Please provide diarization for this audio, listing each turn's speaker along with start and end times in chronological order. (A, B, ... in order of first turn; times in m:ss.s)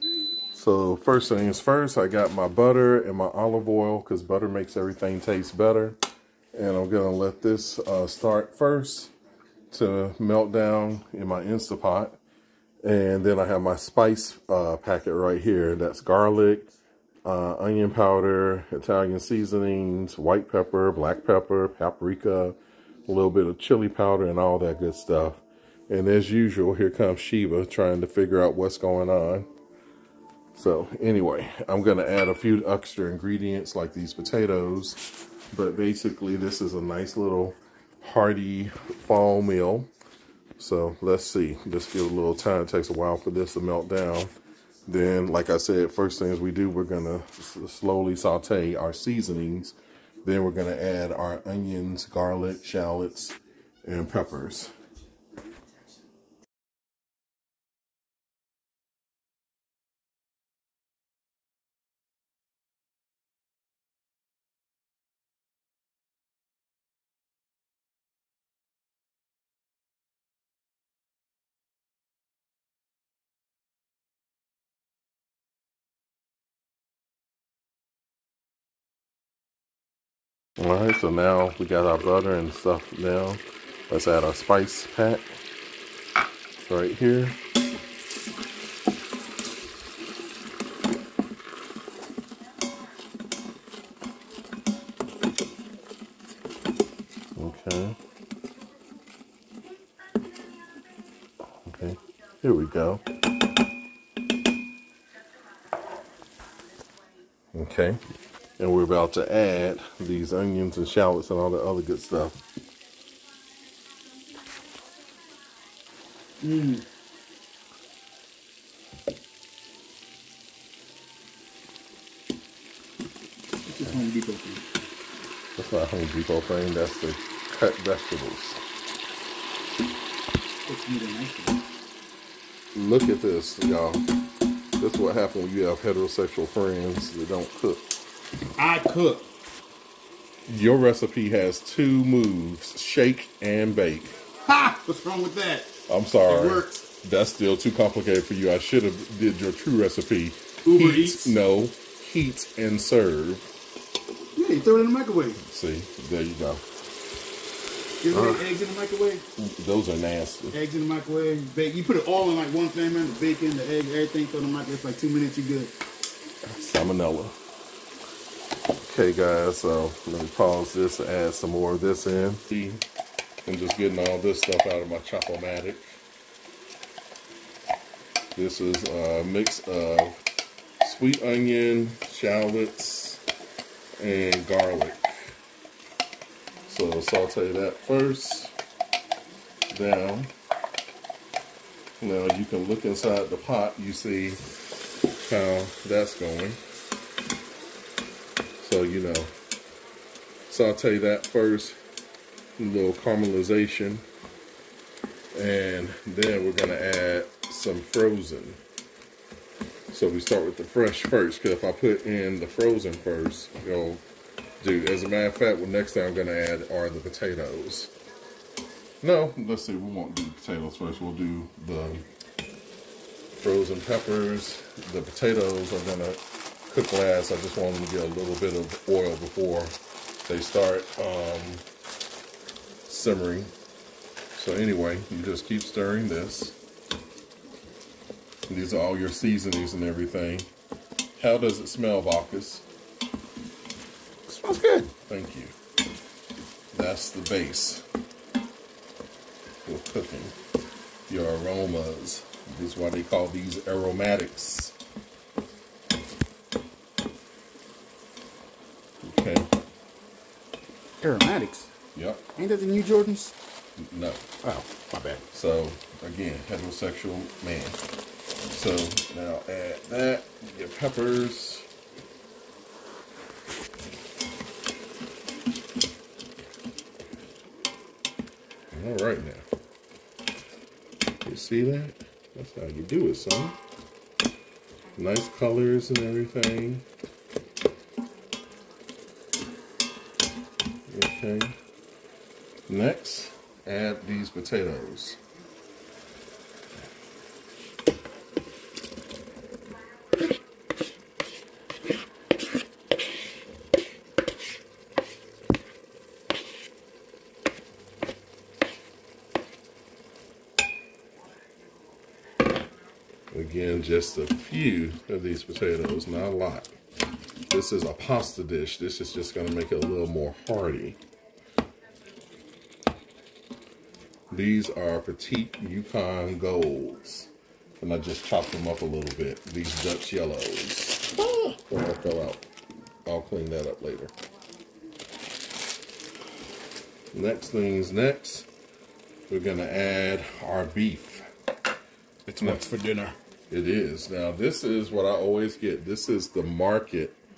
0:00.5-0:06.0 A
0:06.5-0:09.1 A
0:09.7-0:12.2 A
0:12.8-0:16.7 A
0:17.2-0:29.5 A
0:30.6-0:35.0 A
0:35.5-0:39.9 A
0:40.6-0:44.3 A
0:44.9-0:54.7 A
1:20.6-1:25.2 A
1:26.6-1:27.4 A
1:37.4-1:38.0 A
1:41.6-1:43.0 A
1:47.5-1:48.0 A
1:48.6-1:52.4 A
1:56.4-1:56.8 B
2:03.7-2:04.6 B
2:05.6-2:08.6 A
2:10.7-2:11.6 B
2:12.8-2:14.0 A
2:14.8-2:17.8 A
2:18.6-2:19.3 B
2:20.5-2:24.2 A
2:24.4-2:25.7 B
2:25.9-2:33.5 A
2:26.3-2:26.8 B
2:30.7-2:31.3 B
2:34.4-2:35.4 B
2:35.4-2:36.6 A
2:38.0-2:39.2 B
2:38.1-2:38.5 A
2:39.4-2:40.6 A
2:40.5-2:45.7 B
2:46.4-2:47.4 A
2:48.8-2:52.8 A
2:53.5-2:56.0 A
2:58.4-3:00.2 A
3:00.8-3:03.2 A
3:04.0-3:05.3 A
3:06.7-3:08.5 A
3:09.7-3:10.3 A
3:12.0-3:14.4 A
3:15.2-3:16.6 A
3:18.6-3:19.3 A
3:20.5-3:21.8 A
3:22.6-3:24.0 A
3:25.3-3:28.6 A
3:29.9-3:34.0 A
3:34.6-3:37.9 A
3:39.0-3:42.0 A
3:43.3-3:51.6 A
3:52.9-3:53.5 A
3:54.4-3:56.6 A
3:58.5-4:00.5 A
4:01.2-4:02.6 A
4:04.3-4:04.9 B
4:05.0-4:05.5 A
4:06.7-4:07.8 A
4:09.7-4:10.4 A
4:11.1-4:14.8 A
4:19.0-4:19.5 A
4:21.0-4:21.7 B
4:21.9-4:22.3 A
4:22.3-4:23.4 B
4:23.8-4:24.4 A
4:24.4-4:25.2 B
4:25.3-4:27.8 A
4:28.5-4:31.7 A
4:38.7-4:39.4 A
4:41.2-4:43.6 A
4:45.0-4:46.9 A
4:50.9-4:51.6 A
4:52.7-4:55.2 A
5:13.3-5:16.7 A
5:17.5-5:21.0 A
5:24.3-5:27.3 A
5:27.8-5:32.4 A
5:33.1-5:34.1 A
5:37.1-5:38.5 A
5:39.3-5:41.3 A
5:42.3-5:43.2 B
5:43.5-5:47.2 A